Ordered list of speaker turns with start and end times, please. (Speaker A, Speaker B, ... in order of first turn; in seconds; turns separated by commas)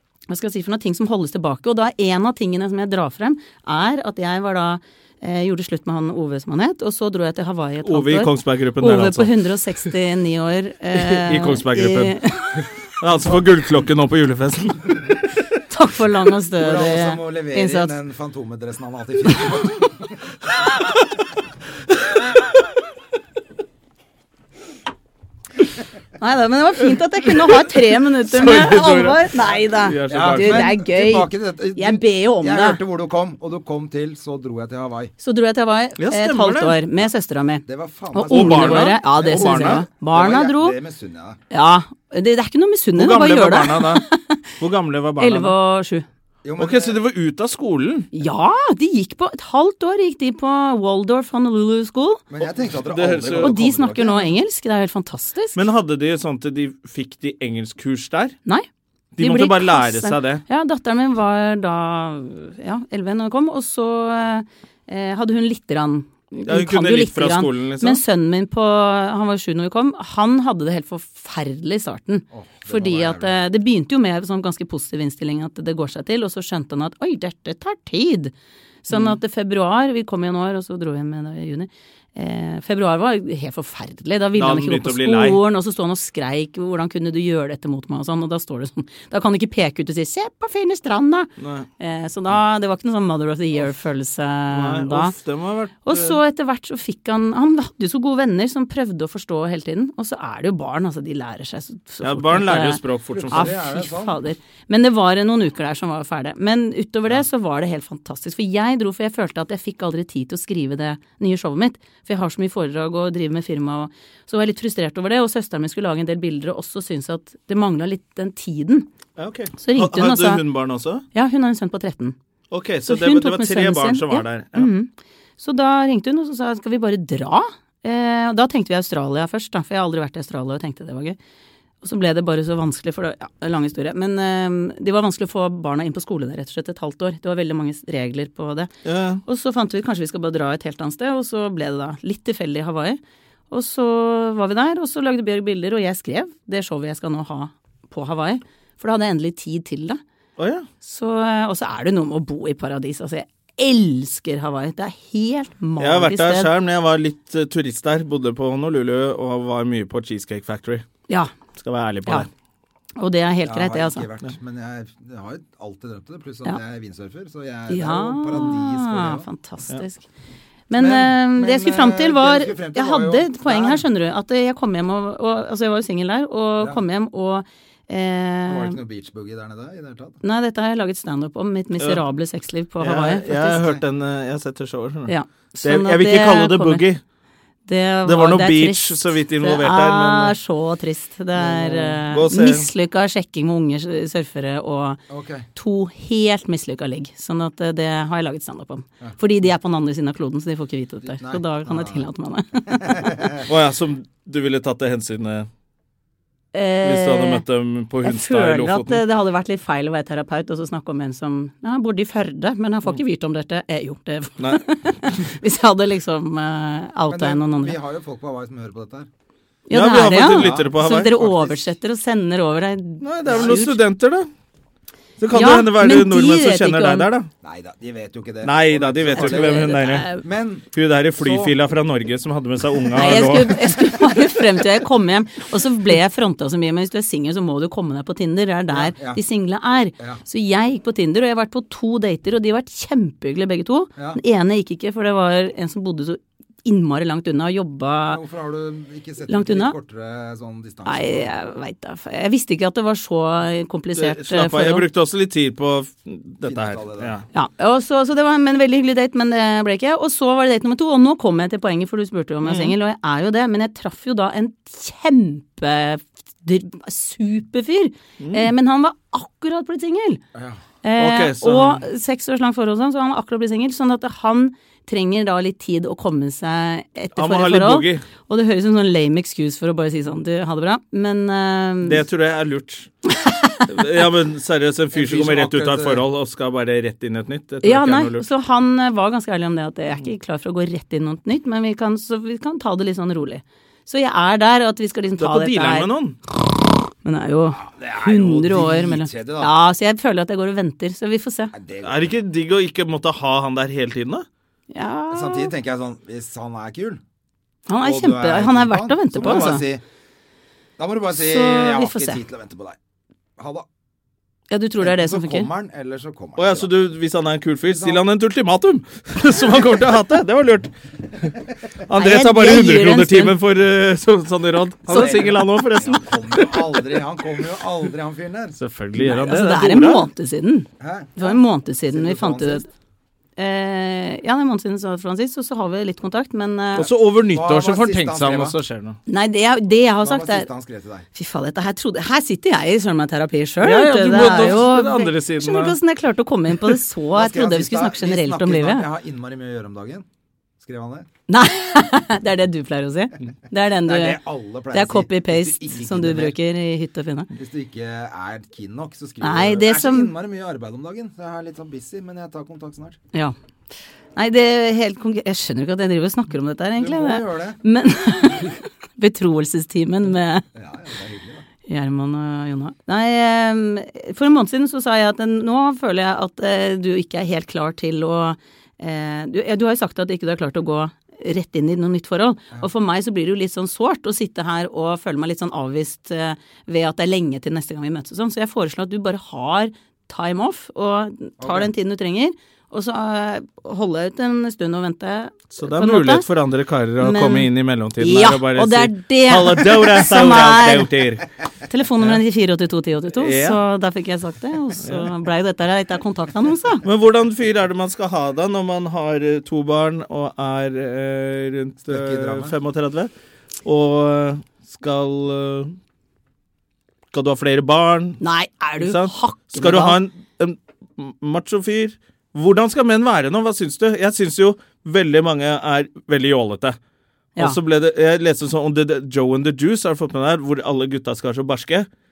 Speaker A: 0.3-12.6, Speaker B: 7.8-9.3, Speaker B: 10.9-14.9, Speaker A: 15.7-17.9, Speaker C: 16.6-20.1, Speaker A: 26.2-32.8, Speaker B: 28.3-29.3, Speaker B: 29.8-30.7, Speaker C: 30.1-35.1, Speaker A: 35.2-40.8, Speaker B: 36.0-36.8, Speaker C: 37.6-41.4, Speaker B: 38.3-39.9, Speaker A: 41.5-44.4, Speaker B: 43.0-44.0, Speaker B: 44.6-45.5, Speaker A: 45.2-46.0, Speaker C: 46.4-47.0, Speaker B: 46.6-48.1, Speaker A: 48.1-52.2, Speaker C: 52.3-54.3, Speaker B: 52.4-53.5, Speaker A: 53.4-55.6, Speaker B: 55.5-58.4, Speaker B: 59.1-60.4, Speaker A: 59.2-78.3, Speaker B: 66.5-68.0, Speaker C: 72.3-73.3, Speaker A: 78.8-95.1, Speaker B: 78.9-79.2, Speaker B: 84.3-85.4, Speaker B: 91.4-91.7, Speaker B: 94.5-96.2, Speaker A: 95.8-118.9, Speaker B: 102.0-103.5, Speaker C: 103.1-104.2, Speaker B: 119.2-121.0, Speaker A: 119.6-120.4, Speaker A: 121.1-122.2, Speaker B: 122.5-124.7, Speaker A: 122.8-131.2, Speaker A: 131.8-138.7, Speaker B: 138.8-139.2, Speaker A: 139.2-150.0, Speaker B: 150.4-150.7, Speaker A: 150.8-156.5, Speaker B: 155.8-160.8, Speaker B: 161.6-162.3, Speaker A: 163.0-164.1, Speaker C: 163.4-169.3, Speaker A: 167.7-170.0, Speaker A: 170.7-178.8, Speaker C: 170.8-173.8, Speaker C: 178.5-180.2, Speaker A: 180.2-183.7, Speaker B: 182.8-187.0, Speaker A: 185.1-186.8, Speaker A: 187.7-195.0, Speaker B: 188.1-190.3, Speaker C: 191.4-192.0, Speaker B: 192.1-192.7, Speaker C: 195.1-195.5, Speaker A: 195.5-203.1, Speaker C: 201.0-202.1, Speaker C: 202.7-203.4, Speaker B: 203.5-205.5, Speaker A: 206.5-207.4, Speaker B: 206.8-209.0, Speaker A: 208.0-217.8, Speaker B: 214.4-215.2, Speaker C: 217.1-219.1, Speaker A: 219.7-223.8, Speaker B: 219.7-221.2, Speaker C: 220.2-221.6, Speaker B: 223.0-224.3, Speaker C: 223.3-223.6, Speaker B: 225.2-227.3, Speaker A: 225.3-227.1, Speaker C: 227.4-230.7, Speaker B: 228.4-230.1, Speaker A: 229.1-230.2, Speaker B: 230.7-233.7, Speaker C: 231.2-231.5, Speaker A: 232.9-248.2, Speaker C: 238.7-239.2, Speaker C: 248.1-251.3, Speaker A: 249.3-249.7, Speaker A: 250.8-254.8, Speaker B: 253.9-257.2, Speaker C: 256.4-257.2, Speaker A: 257.3-270.2, Speaker B: 262.4-262.7, Speaker B: 268.2-268.5, Speaker C: 270.3-270.6, Speaker A: 270.8-282.0, Speaker B: 271.0-271.8, Speaker B: 277.1-278.0, Speaker B: 281.8-282.9, Speaker A: 283.2-283.6, Speaker B: 283.7-288.2, Speaker C: 284.9-286.0, Speaker A: 287.6-295.9, Speaker B: 295.2-296.2, Speaker A: 297.0-301.5, Speaker C: 297.6-299.5, Speaker C: 301.5-302.1, Speaker B: 301.8-304.2, Speaker A: 304.7-305.5, Speaker C: 305.1-307.0, Speaker A: 307.7-309.6, Speaker C: 307.8-309.8, Speaker C: 310.8-312.8, Speaker A: 311.1-312.2, Speaker C: 313.4-313.6, Speaker A: 314.5-315.5, Speaker C: 314.8-316.7, Speaker B: 316.4-320.7, Speaker C: 317.6-318.0, Speaker B: 321.9-327.0, Speaker A: 321.9-323.4, Speaker C: 324.9-328.6, Speaker A: 324.9-325.2, Speaker B: 328.6-330.1, Speaker A: 329.0-332.7, Speaker C: 330.8-332.6, Speaker A: 333.4-336.9, Speaker B: 336.8-339.0, Speaker C: 337.3-338.5, Speaker A: 339.1-340.5, Speaker C: 340.0-341.1, Speaker A: 341.1-348.9, Speaker B: 343.6-345.7, Speaker C: 347.1-350.1, Speaker C: 350.6-351.1, Speaker A: 351.3-354.2, Speaker C: 353.8-356.4, Speaker A: 354.7-357.3, Speaker C: 357.3-363.0, Speaker A: 359.2-360.1, Speaker A: 364.1-370.4, Speaker C: 366.8-367.6, Speaker C: 370.5-371.4, Speaker A: 371.7-396.2, Speaker C: 391.4-391.7, Speaker B: 395.5-401.3, Speaker A: 397.0-400.9, Speaker A: 401.7-406.8, Speaker B: 403.1-403.6, Speaker B: 404.8-405.1, Speaker B: 406.8-413.1, Speaker C: 411.8-412.5, Speaker B: 413.6-415.8, Speaker B: 417.1-418.2, Speaker A: 418.2-420.0, Speaker B: 418.8-426.8, Speaker B: 427.4-431.9